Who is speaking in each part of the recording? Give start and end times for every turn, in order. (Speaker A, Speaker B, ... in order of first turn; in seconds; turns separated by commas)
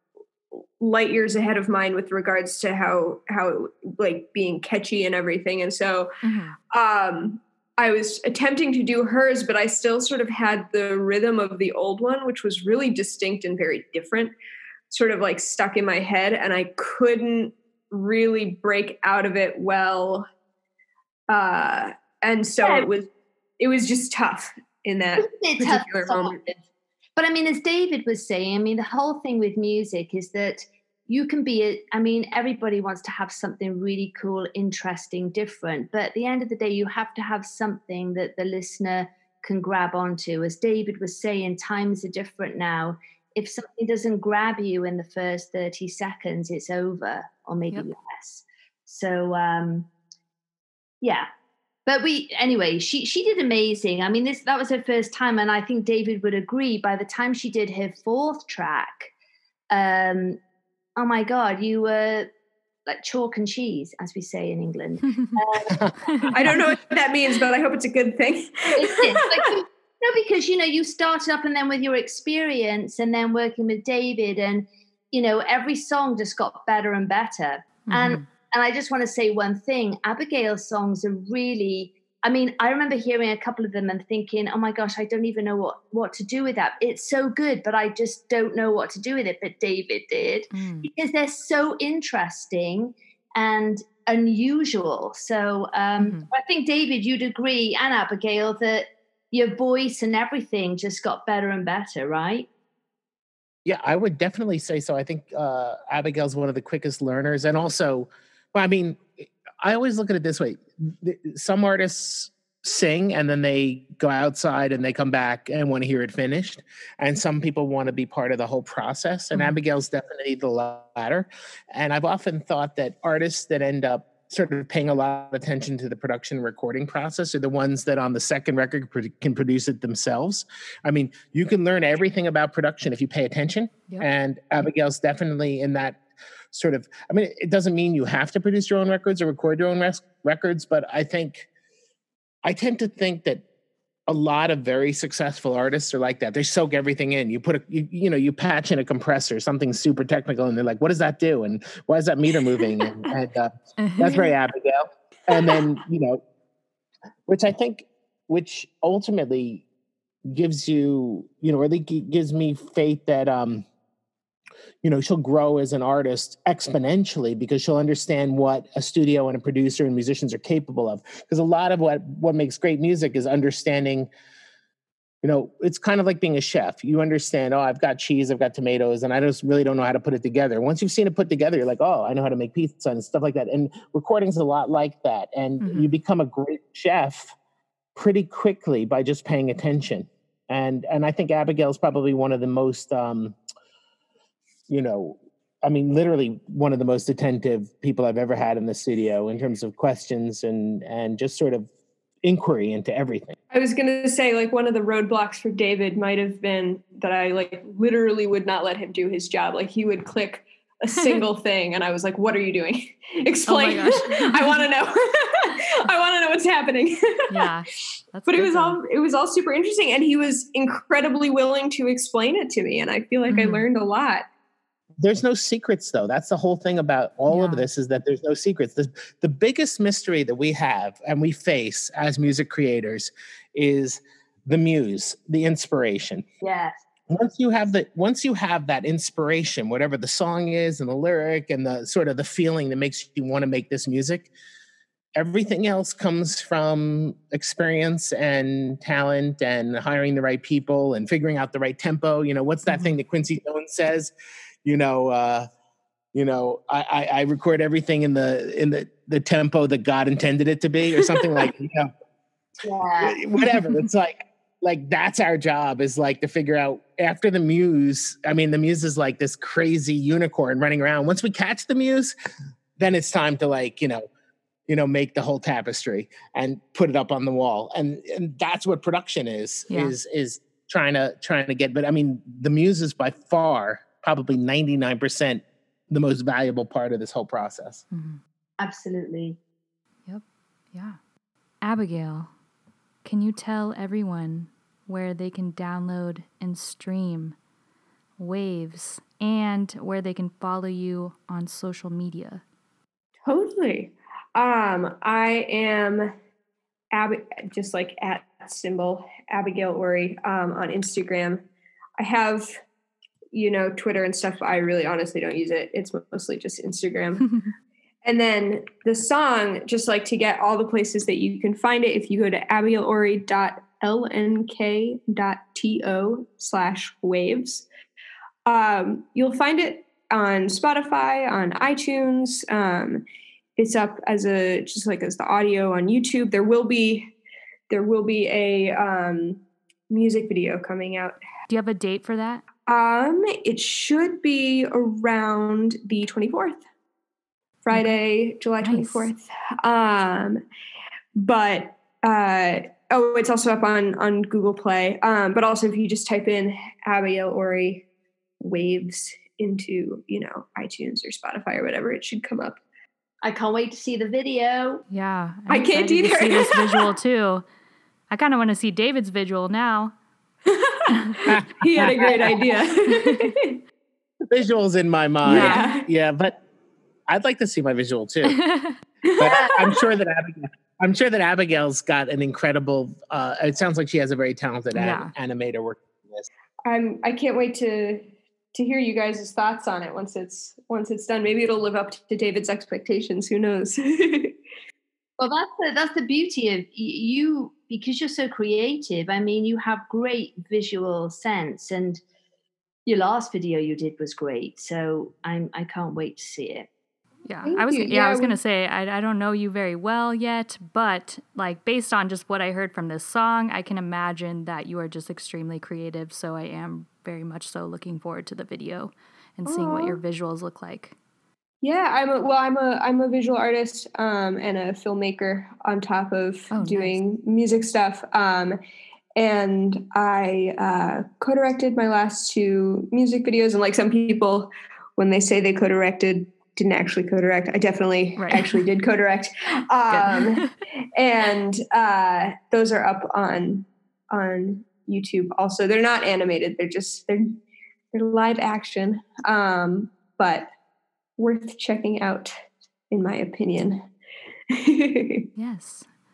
Speaker A: 0.8-6.1, Speaker B: 6.2-6.5, Speaker A: 6.7-14.3, Speaker A: 14.9-20.3, Speaker A: 21.3-26.5, Speaker C: 22.6-22.9, Speaker C: 25.2-26.5, Speaker C: 27.2-49.9, Speaker C: 51.0-51.3, Speaker C: 51.9-59.1, Speaker C: 59.7-60.4, Speaker C: 61.0-62.3, Speaker C: 62.9-65.9, Speaker D: 65.7-66.5, Speaker B: 66.0-66.3, Speaker A: 66.3-69.5, Speaker C: 68.8-102.5, Speaker B: 77.9-78.2, Speaker B: 90.5-90.9, Speaker B: 96.0-96.3, Speaker D: 103.6-136.0, Speaker D: 136.5-141.5, Speaker D: 142.4-143.4, Speaker D: 144.1-156.2, Speaker B: 153.8-154.3, Speaker D: 157.3-159.6, Speaker D: 160.3-163.6, Speaker D: 164.8-174.1, Speaker D: 175.2-187.3, Speaker B: 185.6-185.9, Speaker D: 187.9-193.4, Speaker D: 194.7-201.7, Speaker D: 202.2-203.3, Speaker A: 203.5-217.5, Speaker B: 213.5-214.6, Speaker B: 217.3-218.8, Speaker A: 218.3-224.2, Speaker B: 223.3-223.7, Speaker D: 225.0-236.2, Speaker B: 227.3-227.7, Speaker C: 236.4-236.7, Speaker D: 237.1-244.3, Speaker D: 245.1-254.1, Speaker B: 252.7-253.0, Speaker D: 254.6-255.5, Speaker D: 256.1-261.9, Speaker C: 262.6-263.2, Speaker D: 263.0-272.1, Speaker B: 263.5-263.8, Speaker D: 272.8-274.0, Speaker D: 274.7-287.8, Speaker B: 287.9-288.2, Speaker C: 288.6-289.4, Speaker B: 290.1-291.0, Speaker B: 291.6-292.3, Speaker B: 293.0-297.4, Speaker B: 298.2-302.4, Speaker A: 303.2-306.1, Speaker A: 306.9-311.4, Speaker A: 312.0-312.5, Speaker A: 313.3-317.3, Speaker B: 317.2-317.5, Speaker A: 318.0-327.6, Speaker A: 328.4-333.0, Speaker A: 333.6-337.1, Speaker A: 337.7-341.2, Speaker B: 341.5-342.4, Speaker A: 342.7-346.6, Speaker A: 347.6-350.4, Speaker B: 347.7-348.0, Speaker B: 348.6-349.1, Speaker A: 351.2-357.9, Speaker A: 358.4-362.6, Speaker C: 363.2-364.8, Speaker B: 364.9-367.4, Speaker A: 365.5-366.8, Speaker B: 368.1-369.9, Speaker A: 370.5-373.6, Speaker D: 371.3-372.4, Speaker B: 372.9-373.3, Speaker D: 374.3-376.3, Speaker A: 375.2-375.9, Speaker B: 375.2-375.7, Speaker D: 377.1-378.4, Speaker B: 378.3-378.8, Speaker A: 379.0-379.6, Speaker D: 379.2-386.3, Speaker B: 384.7-385.1, Speaker A: 386.6-394.4, Speaker C: 395.2-402.0, Speaker C: 402.9-406.7, Speaker B: 407.2-420.9, Speaker A: 407.4-408.4, Speaker A: 419.4-420.0, Speaker A: 421.6-428.6, Speaker B: 426.5-427.0, Speaker A: 429.2-440.4, Speaker B: 438.2-438.6, Speaker B: 439.9-440.5, Speaker A: 440.9-447.4, Speaker A: 447.9-450.5, Speaker A: 451.2-452.3, Speaker A: 452.9-453.9, Speaker A: 454.5-455.3, Speaker B: 455.4-455.9